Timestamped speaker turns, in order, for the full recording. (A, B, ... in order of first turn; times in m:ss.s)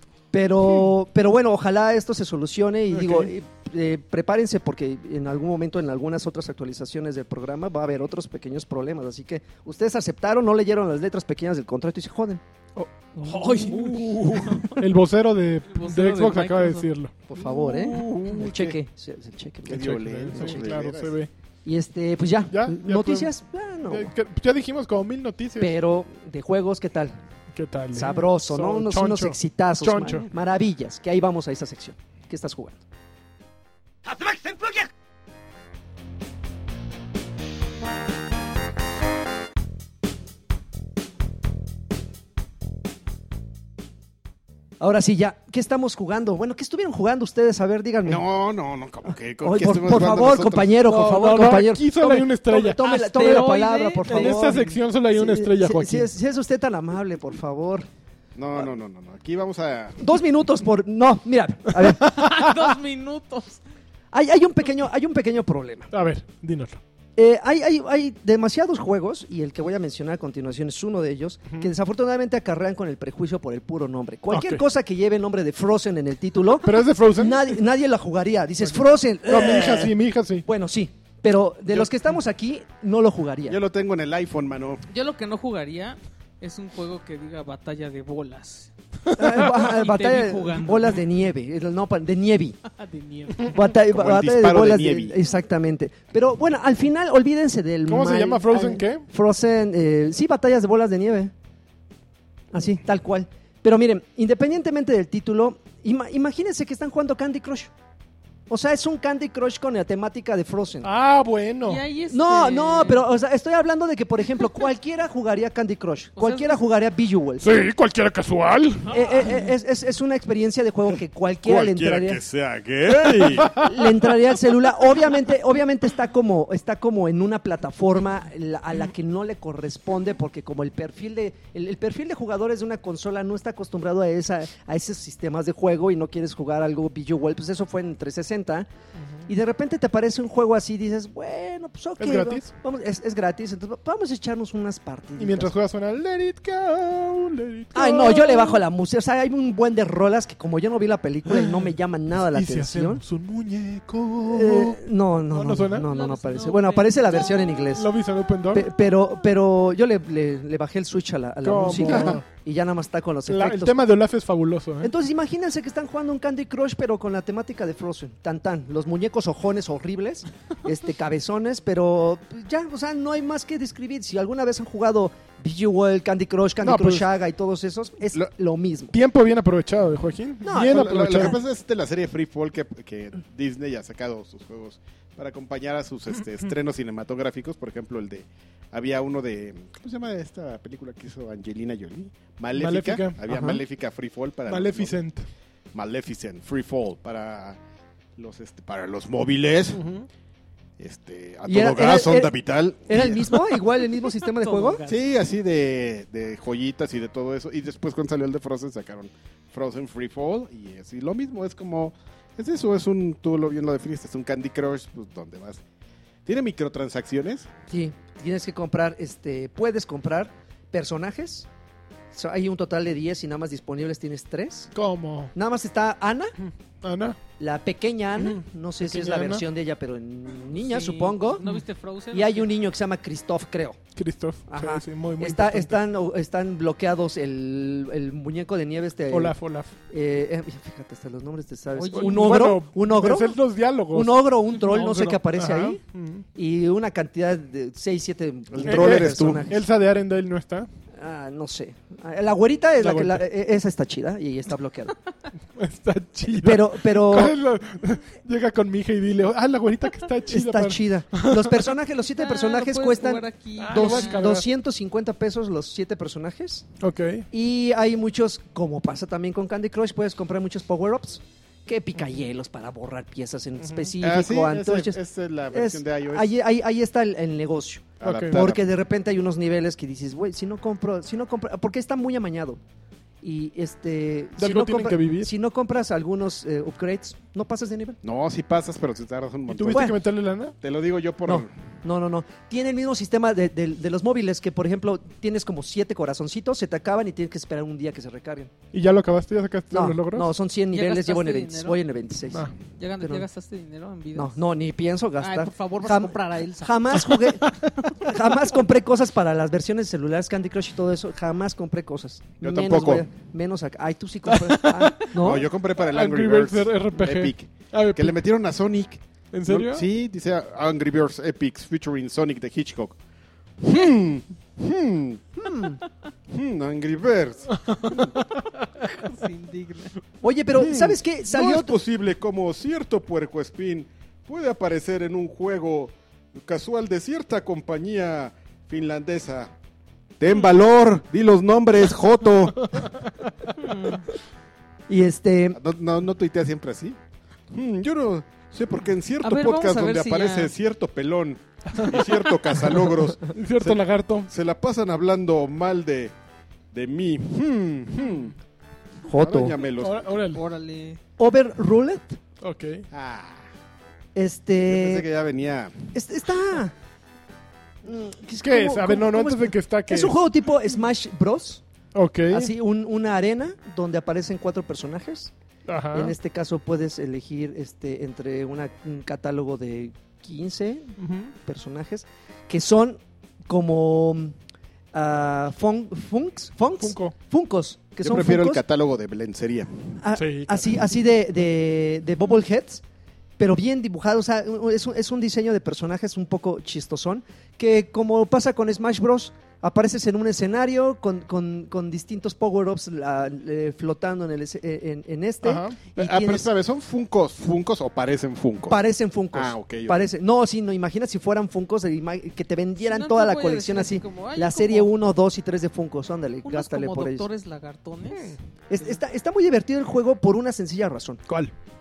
0:00.3-0:12.4 A
0:02.9-0:03.3 B
0:12.8-0:17.1 B
0:13.2-0:14.8 A
0:13.8-0:14.6 C
0:15.6-0:16.9 D
0:17.3-0:20.7 A
0:17.4-0:18.8 C
0:19.6-0:21.2 C
0:19.7-0:21.3 B
0:21.6-0:24.1 A
0:22.5-0:23.3 B
0:23.9-0:25.7 B
0:25.6-0:27.2 A
0:27.5-0:30.3 B
0:27.9-0:32.8 A
0:44.8-0:48.2 A
0:48.0-0:50.8 C
0:49.4-0:57.9 A
0:50.8-0:53.5 B
0:52.8-0:54.6 D
0:54.1-0:56.1 B
0:58.3-1:00.1 C
1:00.0-1:02.2 A
1:01.8-1:02.3 B
1:02.0-1:03.6 D
1:04.1-1:05.9 A
1:05.9-1:06.8 B
1:07.2-1:23.6 A
1:14.3-1:14.6 B
1:16.6-1:17.6 B
1:18.7-1:20.5 B
1:23.5-1:24.8 C
1:24.9-1:28.7 D
1:29.1-1:32.6 A
1:29.2-1:29.5 B
1:29.4-1:31.0 D
1:32.6-1:33.6 D
1:33.5-1:41.3 A
1:33.8-1:35.2 C
1:37.9-1:39.0 B
1:42.5-1:47.7 A
1:48.5-1:50.9 A
1:50.8-1:51.8 B
1:51.6-1:53.0 D
1:52.1-1:57.6 A
1:56.2-1:56.6 D
1:57.4-1:59.0 B
1:58.9-2:02.2 A
2:01.4-2:03.7 C
2:03.2-2:03.8 B
2:03.4-2:18.7 A
2:19.0-2:19.3 B
2:19.3-2:25.5 A
2:22.0-2:22.5 B
2:25.2-2:28.6 B
2:27.7-2:33.0 A
2:31.3-2:31.6 B
2:32.3-2:34.8 B
2:34.2-2:37.9 A
2:35.3-2:35.9 B
2:35.8-2:37.6 D
2:37.7-2:38.6 B
2:38.5-2:43.9 A
2:41.4-2:42.2 B
2:41.8-2:42.2 C
2:43.3-2:44.9 B
2:44.8-2:59.0 A
2:56.6-2:57.0 B
2:58.9-3:01.3 B
3:00.4-3:01.4 A
3:00.5-3:15.0 C
3:12.5-3:13.2 B
3:13.3-3:13.6 A
3:14.5-3:15.3 B
3:15.7-3:17.6 C
3:18.2-3:19.8 C
3:19.7-3:20.1 B
3:20.8-3:23.4 C
3:21.5-3:22.3 A
3:22.9-3:24.8 A
3:24.3-3:25.0 D
3:24.9-3:35.6 C
3:36.2-3:37.5 C
3:37.7-3:41.5 A
3:42.1-3:44.7 A
3:44.7-3:45.3 B
3:45.3-3:46.3 A
3:46.4-3:47.2 B
3:47.4-3:51.4 A
3:48.2-3:49.4 B
3:50.5-3:52.5 D
3:52.1-3:53.8 A
3:54.0-3:55.8 B
3:54.5-3:59.4 A
3:59.1-3:59.7 B
3:59.9-4:05.8 A
4:01.7-4:02.5 D
4:01.9-4:06.2 B
4:06.3-4:09.6 A
4:08.5-4:09.4 C
4:08.6-4:10.7 B
4:11.0-4:15.0 A
4:12.8-4:13.2 B
4:15.5-4:21.6 B
4:16.3-4:17.4 A
4:20.3-4:26.7 A
4:22.2-4:24.3 D
4:23.6-4:24.4 B
4:26.8-4:27.2 B
4:27.3-4:35.0 A
4:33.6-4:33.9 B
4:34.0-4:36.3 C
4:35.5-4:42.6 A
4:38.0-4:38.6 C
4:38.0-4:38.4 B
4:43.2-4:48.0 A
4:44.4-4:45.3 B
4:48.0-4:49.9 C
4:49.5-4:50.5 B
4:49.7-4:50.0 A
4:50.6-4:51.5 C
4:51.3-4:58.5 A
4:58.7-5:00.3 B
4:59.7-5:03.2 A
5:00.7-5:01.8 D
5:02.8-5:04.4 D
5:04.2-5:15.5 A
5:05.2-5:07.0 D
5:07.4-5:07.9 B
5:12.4-5:13.0 C
5:14.3-5:18.1 B
5:15.2-5:23.0 C
5:19.3-5:19.8 B
5:23.6-5:25.2 C
5:25.4-5:25.8 A
5:26.3-5:28.0 C
5:27.6-5:28.1 B
5:28.8-5:29.9 D
5:30.2-5:31.8 A
5:30.6-5:39.5 C
5:40.2-5:42.8 C
5:43.6-5:44.0 D
5:44.9-5:45.6 A
5:45.5-5:47.0 C
5:47.5-5:56.1 C
5:49.2-5:50.5 D
5:51.7-5:52.0 B
5:53.3-5:54.3 B
5:56.7-5:58.3 C
5:59.0-5:59.5 A
5:59.1-6:00.1 C
5:59.8-6:00.4 B
6:00.3-6:01.0 D
6:01.2-6:02.2 A
6:02.4-6:02.8 B
6:02.9-6:03.5 C
6:04.1-6:05.0 A
6:04.6-6:05.9 C
6:05.9-6:06.7 A
6:07.8-6:11.6 A
6:08.4-6:10.1 B
6:11.9-6:12.5 B
6:12.3-6:15.3 A
6:15.7-6:16.1 B
6:15.9-6:24.3 A
6:21.0-6:21.3 B
6:24.9-6:28.6 A
6:26.8-6:27.1 B
6:28.0-6:30.0 C
6:30.0-6:32.8 A
6:30.1-6:30.6 B
6:33.4-6:46.5 A
6:45.4-6:48.8 C
6:48.7-6:57.2 A
6:49.3-6:50.0 C
6:52.8-6:54.9 D
6:56.4-6:59.0 D
6:58.1-6:58.4 B
6:58.7-7:01.2 A
7:01.3-7:01.5 B